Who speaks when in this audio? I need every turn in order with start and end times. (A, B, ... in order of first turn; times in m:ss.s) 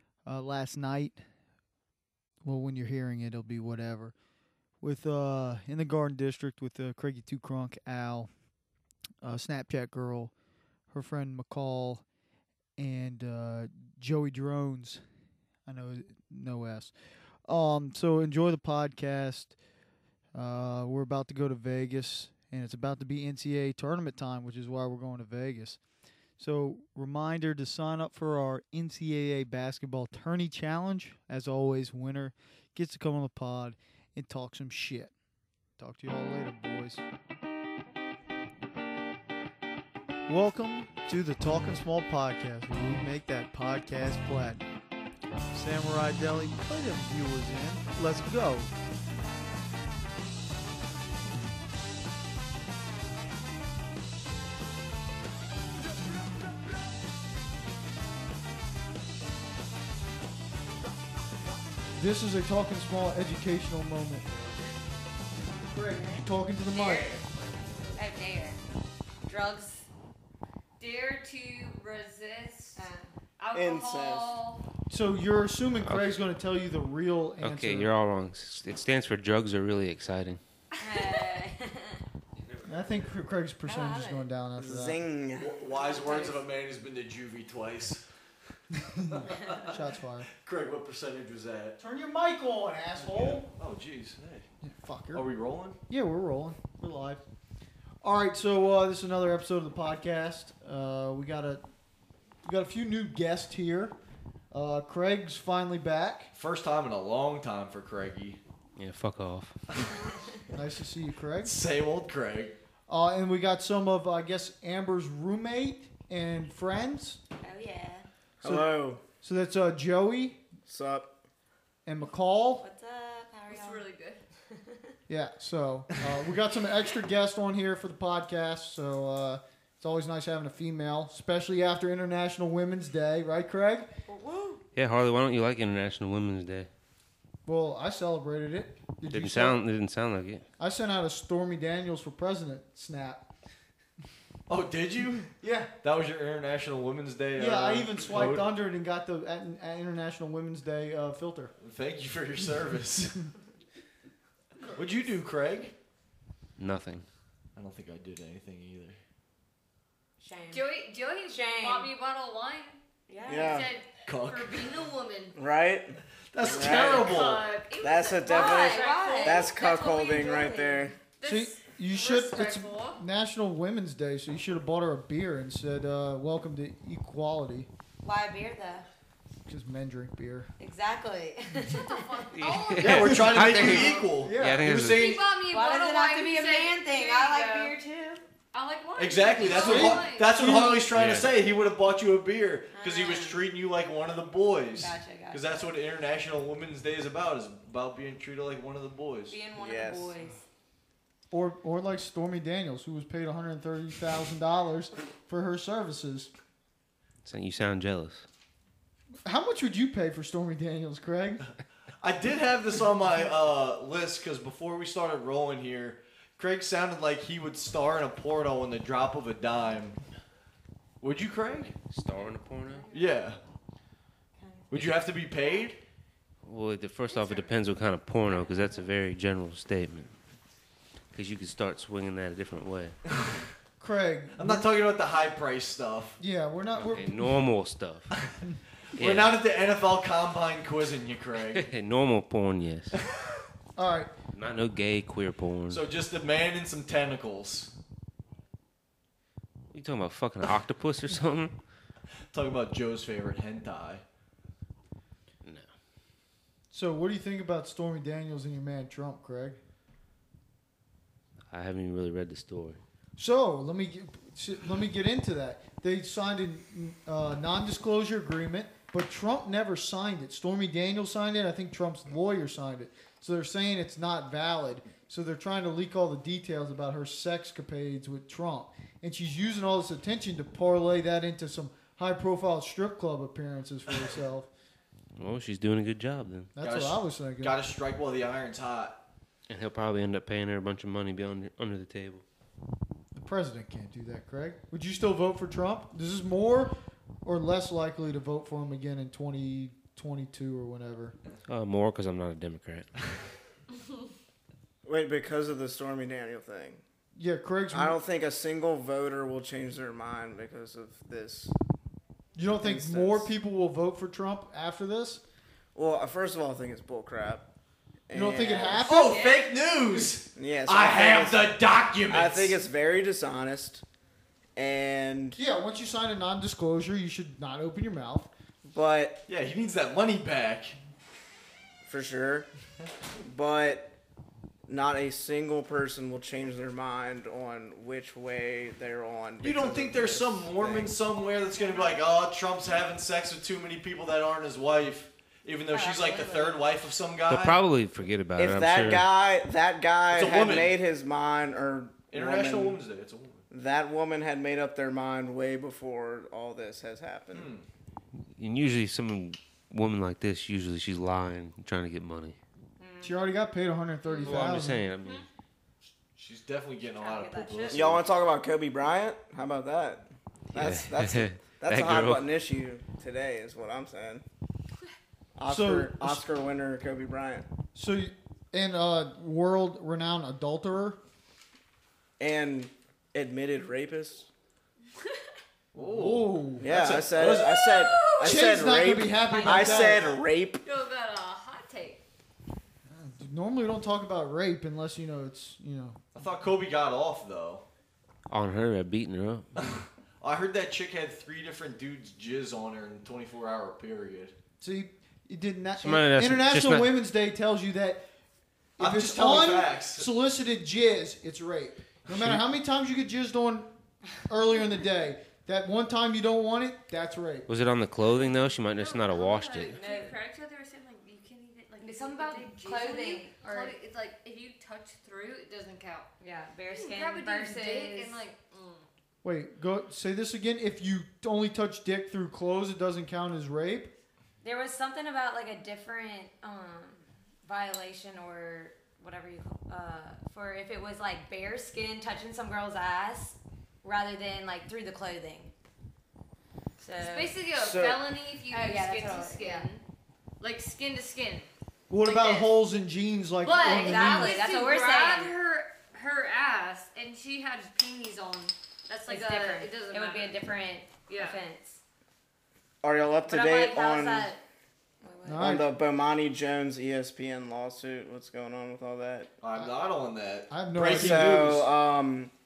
0:00.2-0:01.2 A
0:02.4-0:04.1 A
0:04.8-0:08.3 A
0:09.2-0:10.3 A
0:10.9-0:12.0 A
0:12.8-0:15.0 A
0:15.6-0:16.9 A
0:17.4-0:19.6 A
0:20.3-0:25.8 A
0:26.4-0:35.1 A
0:35.8-0:37.0 A
0:40.3-0:44.6 A
0:45.5-0:48.7 A
1:02.0-1:04.2 A
1:05.6-1:07.1 A
1:06.0-1:07.2 B
1:07.9-1:08.6 B
1:09.2-1:09.8 B
1:10.8-1:12.8 C
1:12.8-1:13.1 B
1:13.4-1:14.6 C
1:13.5-1:14.3 D
1:14.9-1:18.0 A
1:15.9-1:16.2 E
1:17.4-1:20.4 E
1:20.8-1:22.0 B
1:20.9-1:21.4 C
1:22.6-1:25.0 A
1:23.6-1:24.3 B
1:24.6-1:25.5 D
1:25.4-1:28.0 F
1:25.7-1:26.4 B
1:28.8-1:30.3 A
1:29.0-1:29.8 F
1:30.4-1:31.8 F
1:31.8-1:33.5 A
1:33.0-1:34.4 F
1:34.6-1:35.2 A
1:35.1-1:35.8 F
1:35.9-1:37.2 A
1:38.0-1:41.6 A
1:42.4-1:43.9 A
1:44.5-1:46.3 A
1:46.3-1:48.4 F
1:48.8-1:49.6 E
1:50.5-1:51.5 A
1:51.4-1:52.6 F
1:52.9-1:57.2 A
1:57.4-1:58.0 B
1:58.4-1:59.0 D
1:58.4-2:00.4 A
2:00.6-2:01.1 D
2:01.8-2:02.6 A
2:02.6-2:03.8 B
2:03.5-2:04.2 C
2:05.1-2:13.9 A
2:14.1-2:14.6 B
2:14.8-2:16.7 E
2:17.4-2:19.6 A
2:19.1-2:20.4 E
2:20.6-2:23.2 A
2:24.5-2:25.3 F
2:25.4-2:25.7 A
2:25.8-2:28.5 F
2:27.4-2:31.5 A
2:31.6-2:33.2 F
2:34.7-2:35.7 F
2:36.6-2:37.0 E
2:37.6-2:39.0 F
2:40.2-2:40.7 B
2:40.5-2:42.8 C
2:41.3-2:41.9 B
2:43.1-2:43.6 B
2:43.2-2:43.7 D
2:43.3-2:45.4 C
2:44.0-2:44.8 F
2:45.3-2:47.1 D
2:46.3-2:47.4 F
2:46.6-2:50.6 C
2:47.8-2:50.9 D
2:48.2-2:50.9 B
2:51.2-2:53.0 C
2:51.2-2:57.7 A
2:58.0-2:58.9 B
2:59.5-3:00.5 A
3:00.6-3:02.2 B
3:01.7-3:04.1 C
3:02.3-3:05.1 E
3:02.8-3:05.2 F
3:03.1-3:04.6 A
3:04.9-3:07.7 C
3:05.5-3:08.2 B
3:08.5-3:10.3 C
3:09.0-3:19.4 F
3:09.5-3:10.8 A
3:10.9-3:11.3 E
3:12.7-3:13.5 B
3:14.7-3:15.7 B
3:19.3-3:20.4 B
3:19.5-3:20.1 D
3:21.3-3:26.3 A
3:27.2-3:28.2 E
3:29.2-3:31.4 A
3:32.0-3:40.0 F
3:41.0-3:41.8 F
3:41.9-3:42.8 E
3:42.2-3:43.2 B
3:42.9-3:43.4 F
3:44.4-3:44.9 B
3:44.7-3:45.8 F
3:46.4-3:50.1 E
3:47.1-3:47.5 B
3:48.2-3:48.8 B
3:51.1-3:53.0 E
3:53.8-3:54.7 A
3:54.3-3:56.2 F
3:56.2-3:57.4 A
3:56.7-3:58.1 E
3:58.9-4:01.6 F
3:59.0-3:59.4 E
4:01.5-4:02.9 E
4:03.8-4:04.1 A
4:04.3-4:05.8 E
4:05.7-4:07.7 F
4:09.7-4:11.5 E
4:12.3-4:14.0 F
4:16.7-4:19.6 A
4:21.5-4:22.8 E
4:23.2-4:44.5 A
4:45.2-4:46.5 E
4:46.6-4:47.6 A
4:46.6-4:49.0 F
4:49.5-4:52.2 E
4:53.1-5:01.2 A
5:01.5-5:02.9 E
5:04.8-5:06.8 D
5:07.2-5:08.0 A
5:07.7-5:11.5 D
5:12.3-5:15.2 A
5:12.5-5:13.3 D
5:15.7-5:17.4 D
5:18.1-5:18.8 D
5:18.1-5:19.2 A
5:18.7-5:22.6 F
5:19.1-5:19.4 C
5:20.3-5:21.5 D
5:22.1-5:23.8 D
5:24.6-5:25.4 D
5:25.4-5:28.3 A
5:28.7-5:29.2 D
5:29.3-5:30.7 F
5:31.8-5:32.5 D
5:33.2-5:33.9 D
5:34.7-5:40.9 D
5:39.4-5:47.6 F
5:41.3-5:42.0 C
5:45.7-5:46.7 B
5:47.3-5:49.0 E
5:48.4-5:52.8 D
5:50.1-5:50.8 F
5:52.1-5:53.4 F
5:53.5-5:57.5 D
5:57.3-5:57.6 F
5:58.3-6:02.4 E
6:02.8-6:03.2 B
6:03.0-6:04.9 A
6:04.2-6:05.2 E
6:06.2-6:08.0 F
6:07.0-6:07.9 B
6:07.7-6:14.2 D
6:10.5-6:12.2 E
6:15.4-6:17.5 D
6:15.5-6:16.2 A
6:17.7-6:21.0 A
6:22.2-6:24.3 D
6:25.7-6:27.7 F
6:25.8-6:26.7 A
6:26.6-6:30.6 D
6:27.4-6:28.5 C
6:28.2-6:30.0 A
6:29.3-6:30.1 B
6:30.6-6:32.0 C
6:32.9-6:36.1 A
6:36.1-6:37.6 F
6:38.3-6:39.5 E
6:39.6-6:44.3 F
6:44.6-6:48.0 A
6:45.8-6:47.0 E
6:48.8-6:50.1 F
6:48.8-6:53.7 A
6:54.2-6:57.5 A
6:57.5-6:59.8 E
6:58.7-7:06.1 C
6:59.7-7:00.2 B
7:01.8-7:03.7 B
7:06.2-7:08.2 B
7:06.7-7:08.9 C
7:09.2-7:13.9 A
7:14.4-7:25.5 B
7:26.8-7:27.3 B
7:27.0-7:29.8 C
7:27.5-7:28.0 D
7:28.5-7:29.7 B
7:30.4-7:31.5 C
7:31.9-7:34.4 A
7:32.0-7:32.5 C
7:33.4-7:40.4 C
7:33.6-7:35.4 B
7:39.1-7:41.8 B
7:41.1-7:41.4 C
7:42.8-7:44.3 D
7:43.2-7:44.4 B
7:45.0-7:45.6 B
7:45.2-7:45.7 A
7:45.4-7:49.3 D
7:49.4-7:51.6 F
7:50.5-7:51.7 A
7:50.8-7:52.3 D